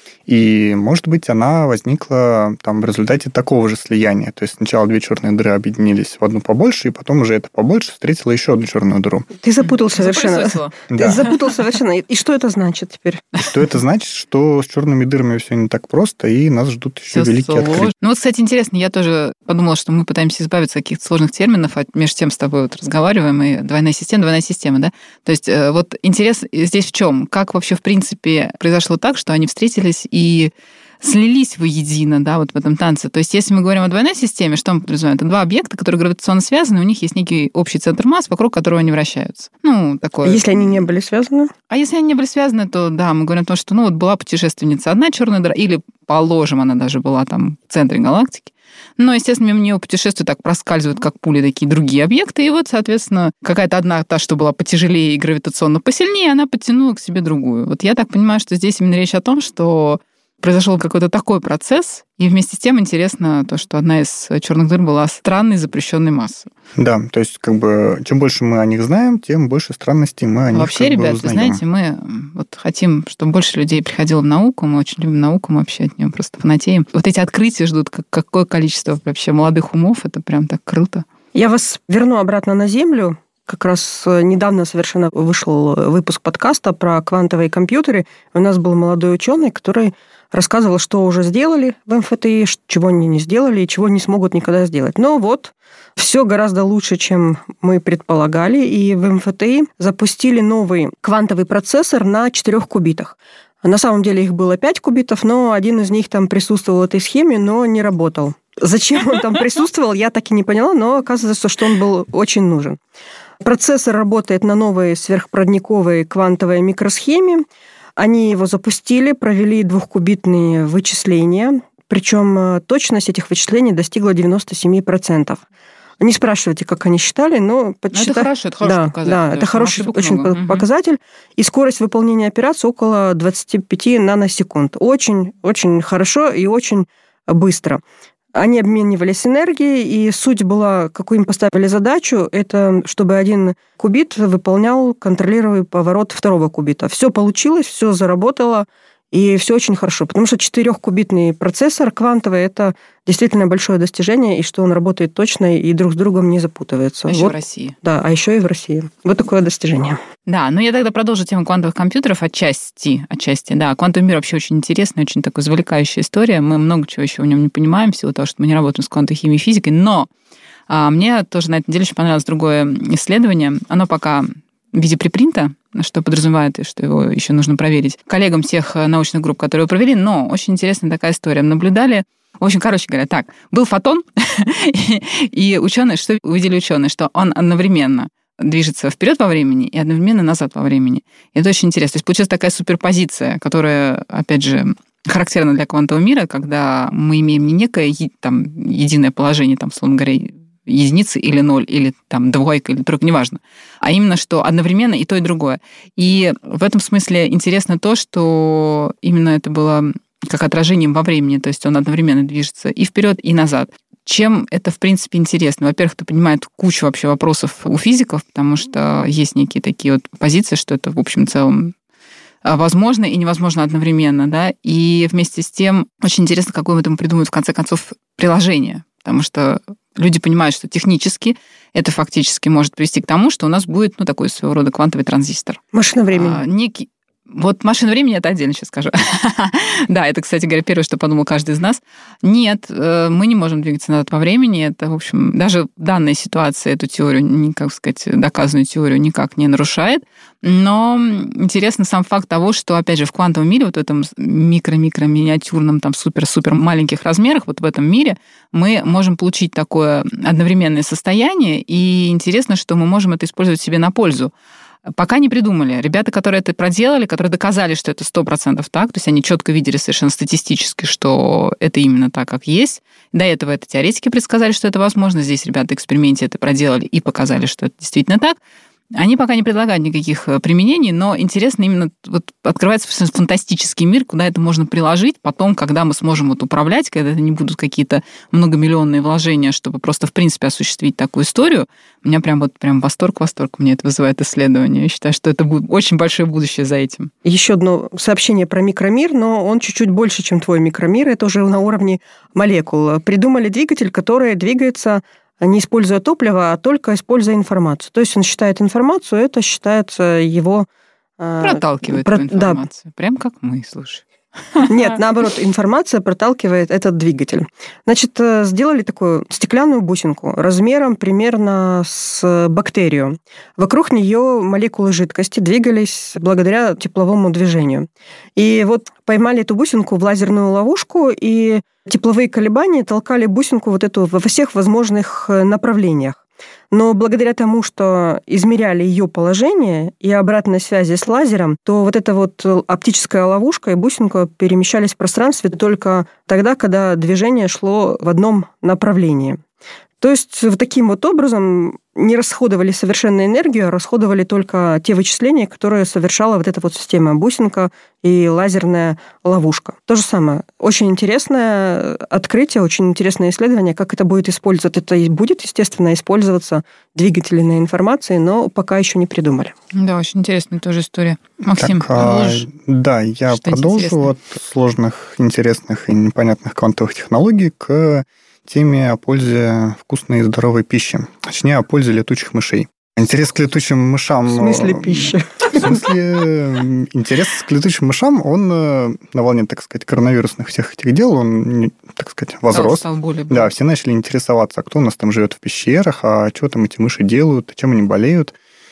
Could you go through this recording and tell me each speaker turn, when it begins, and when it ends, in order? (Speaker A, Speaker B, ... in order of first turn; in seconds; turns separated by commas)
Speaker A: 0.3-9.3, Speaker B: 9.4-13.3, Speaker C: 9.6-11.3, Speaker A: 10.9-11.2, Speaker A: 13.4-17.9, Speaker C: 17.1-40.9, Speaker B: 40.2-41.5, Speaker C: 41.7-66.5, Speaker A: 66.8-71.6, Speaker C: 70.5-81.0, Speaker B: 81.3-112.8, Speaker B: 113.4-117.5, Speaker B: 118.0-125.4, Speaker B: 126.0-137.8, Speaker C: 127.9-130.7, Speaker B: 138.3-160.0, Speaker C: 157.1-157.8, Speaker C: 160.3-170.1, Speaker C: 170.7-221.7, Speaker C: 222.4-264.3, Speaker B: 235.7-236.4, Speaker C: 264.9-278.4, Speaker C: 278.9-297.1, Speaker B: 297.2-310.7, Speaker B: 311.2-312.6, Speaker C: 311.4-315.0, Speaker B: 314.7-349.4, Speaker B: 350.0-369.5, Speaker C: 369.7-372.5, Speaker A: 371.6-398.4, Speaker C: 373.3-374.1, Speaker B: 384.3-385.8, Speaker C: 392.5-393.5